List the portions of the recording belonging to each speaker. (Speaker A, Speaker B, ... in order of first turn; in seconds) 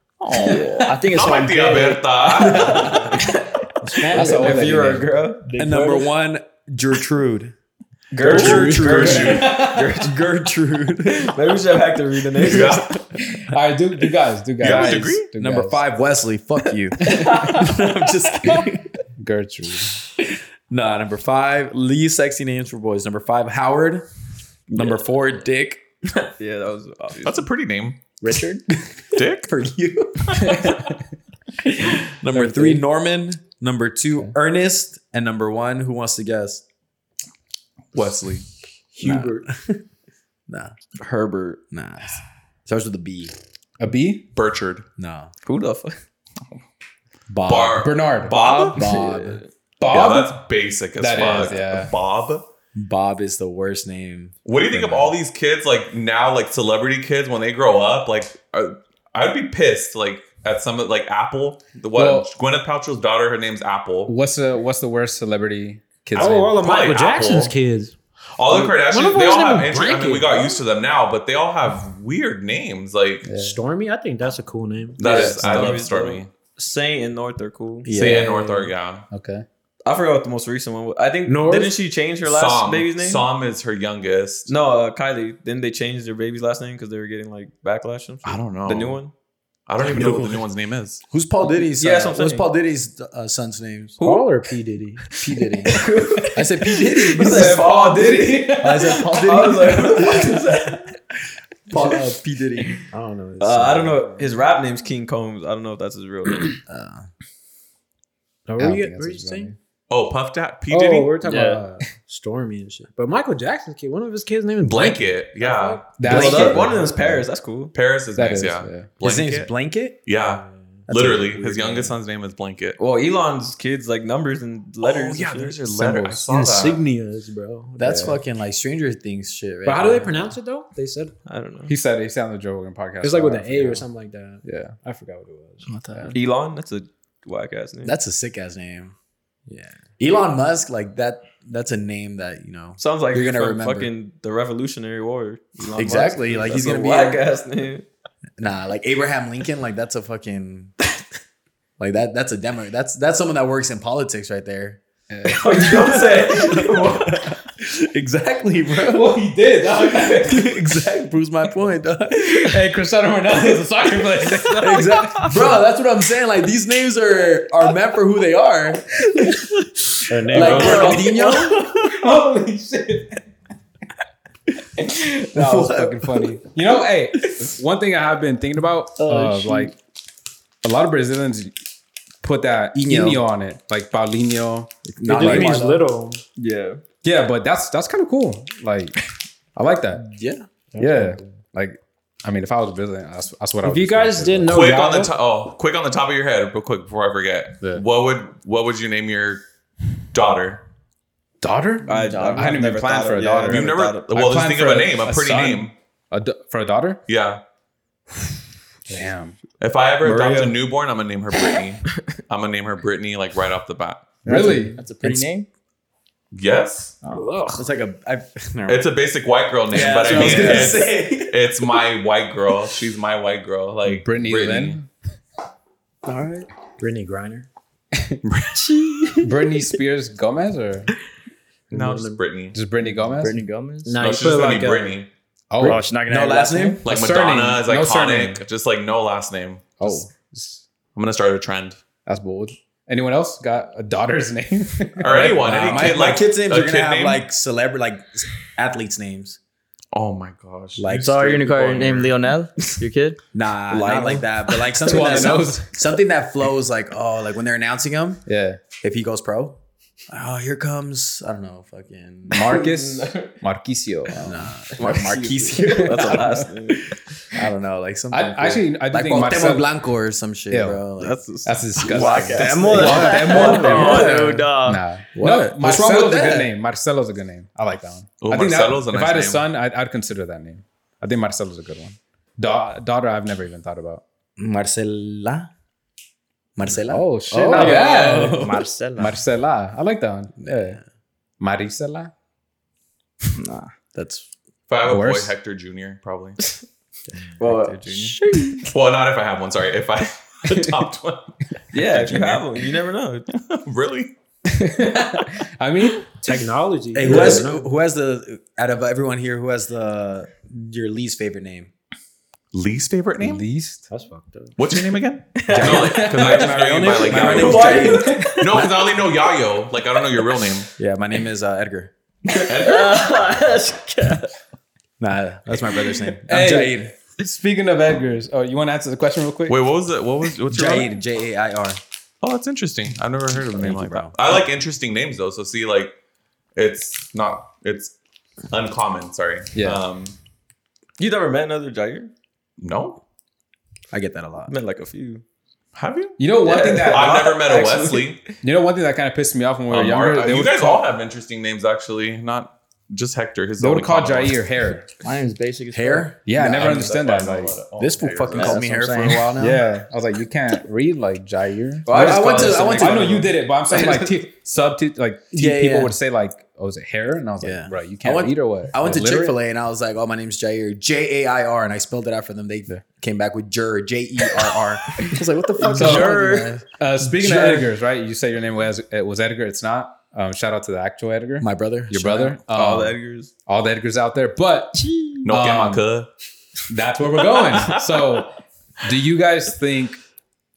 Speaker A: 0.2-3.2, 8.3-9.5, 12.4-13.0, 14.6-15.3, 27.2-28.0, 29.1-29.5, 37.9-38.4, 44.3-44.9, 47.5-48.8, 49.9-52.4, 54.4-64.1, 66.2-67.5, 68.3-73.3, 75.0-76.3, 77.9-79.0, 82.2-84.5, 88.2-89.0, 89.7-91.0, 109.9-111.2, 114.6-115.9, 117.7-119.5, 120.0-122.8, 124.8-126.8, 194.5-199.4, 200.1-200.6, 203.5-205.7, 207.1-207.4, 209.6-214.2, 216.3-216.9, 218.7-224.8, 231.7-232.6, 234.0-235.1, 236.8-240.0, 240.9-241.8, 245.0-247.2, 249.9-252.1, 278.2-279.4, 294.7-296.4, 298.6-302.7, 303.3-304.1, 312.5-313.4, 314.6-320.7, 322.4-323.1, 329.5-330.9, 332.2-335.9, 336.6-337.9, 338.5-340.1, 342.6-343.0, 345.7-348.2, 349.7-354.4, 356.4-358.7, 385.2-386.1
Speaker B: 0.3-1.0, 2.5-3.4, 4.1-5.5, 8.1-10.3, 11.1-13.0, 17.1-17.8, 26.1-27.4, 45.5-46.0, 48.3-49.5, 75.0-77.9, 79.8-83.2, 84.5-89.1, 89.8-90.3, 91.8-92.5, 94.0-94.2, 95.4-100.9, 103.4-106.5, 116.0-117.7, 122.8-125.6, 131.2-131.7, 136.1-137.9, 142.8-147.8, 155.3-157.2, 186.4-186.8, 201.8-204.1, 210.0-210.5, 253.7-255.3, 262.4-263.3, 264.8-266.9, 271.0-274.1, 287.5-288.3, 297.4-297.9, 301.7-303.3, 307.1-307.3, 315.4-318.4, 341.0-342.1, 344.5-345.2, 346.4-348.1, 361.9-364.0, 382.5-383.3
Speaker C: 0.4-3.0, 4.1-4.5, 5.5-6.1, 111.2-111.6, 179.0-179.7, 201.9-202.5, 214.2-215.5, 226.0-226.5, 228.6-229.2, 233.1-234.0, 235.6-236.8, 250.9-253.2, 271.9-274.8, 288.2-289.2, 293.4-293.7, 297.9-298.7, 322.4-324.3, 355.0-356.1, 358.3-359.4, 375.6-376.5, 384.8-385.2
Speaker D: 3.8-4.9, 66.1-68.0, 68.5-70.6, 73.3-75.3, 81.2-81.8, 94.0-95.0, 102.9-104.3, 108.5-109.5, 110.7-116.7, 120.2-120.8, 126.3-128.0, 129.6-131.1, 133.0-135.7, 139.5-139.8, 170.1-171.1, 185.0-186.2, 190.8-191.1, 193.6-195.1, 217.1-217.5, 226.8-227.5, 231.7-232.2, 233.8-235.0, 306.2-307.7, 313.9-314.6, 316.2-317.1
Speaker E: 4.1-5.1, 8.3-9.8, 13.2-15.8, 17.1-17.5, 19.2-20.0, 30.4-30.9, 32.4-32.7, 43.8-44.3, 47.8-48.3, 49.8-50.4, 51.0-51.9, 62.0-62.3, 64.1-66.6, 73.2-73.6, 75.0-75.8, 78.0-78.5, 79.1-79.4, 97.2-99.3, 108.6-109.5, 116.0-117.2, 118.2-118.9, 125.7-126.2, 127.8-128.2, 131.7-133.8, 134.4-134.7, 155.1-155.8, 158.8-160.8, 162.1-165.5, 170.3-173.2, 175.3-179.8, 180.6-181.5, 182.2-185.5, 187.0-189.0, 189.6-190.0, 190.8-194.6, 201.4-207.0, 208.9-209.3, 214.2-215.2, 220.2-220.7, 223.9-224.9, 229.2-230.9, 232.5-233.4, 235.5-235.8, 236.8-238.4, 239.8-240.6, 242.1-246.1, 254.8-255.8, 258.2-258.6, 262.3-264.5, 265.9-266.4, 268.1-269.7, 270.5-270.8, 271.4-284.0, 286.7-288.4, 289.0-290.8, 291.4-292.1, 294.9-295.3, 304.5-306.1, 313.2-313.9, 315.5-318.2, 326.2-329.6, 339.5-339.8, 346.2-347.2, 348.4-350.9, 353.6-354.9, 356.2-357.6, 359.4-369.4, 375.7-385.8, 386.7-390.0
Speaker F: 5.5-7.5, 8.2-11.4, 14.6-18.9, 20.2-24.1, 24.7-25.8, 29.2-30.8, 31.8-36.6, 39.0-39.8, 40.5-43.3, 45.0-45.3, 47.3-47.9, 48.7-49.4, 52.7-55.1, 77.8-78.4, 91.1-94.0, 95.2-97.7, 98.6-100.6, 101.7-102.8, 106.7-107.1, 116.1-116.5, 119.0-120.0, 120.9-121.8, 127.8-130.3, 137.8-138.9, 140.0-143.9, 145.7-147.2, 148.4-150.7, 151.8-154.8, 155.4-162.6, 164.5-169.4, 170.3-171.6, 175.2-176.3, 182.7-183.2, 184.8-185.8, 190.0-190.4, 217.5-218.8, 219.7-221.5, 236.1-236.8, 245.1-249.4, 250.8-251.4, 253.3-258.2, 258.8-259.6, 260.1-262.6, 264.1-266.3, 267.3-271.2, 271.9-274.4, 275.1-276.5, 284.4-285.5, 286.6-288.6, 290.4-290.8, 293.9-294.3, 297.4-298.1, 306.9-311.7, 317.0-318.9, 320.8-321.9, 325.0-326.9, 330.5-331.8, 333.6-334.3, 343.9-344.5, 355.7-356.9, 357.8-359.6, 361.9-363.3, 365.3-365.9, 367.4-377.7, 381.4-382.4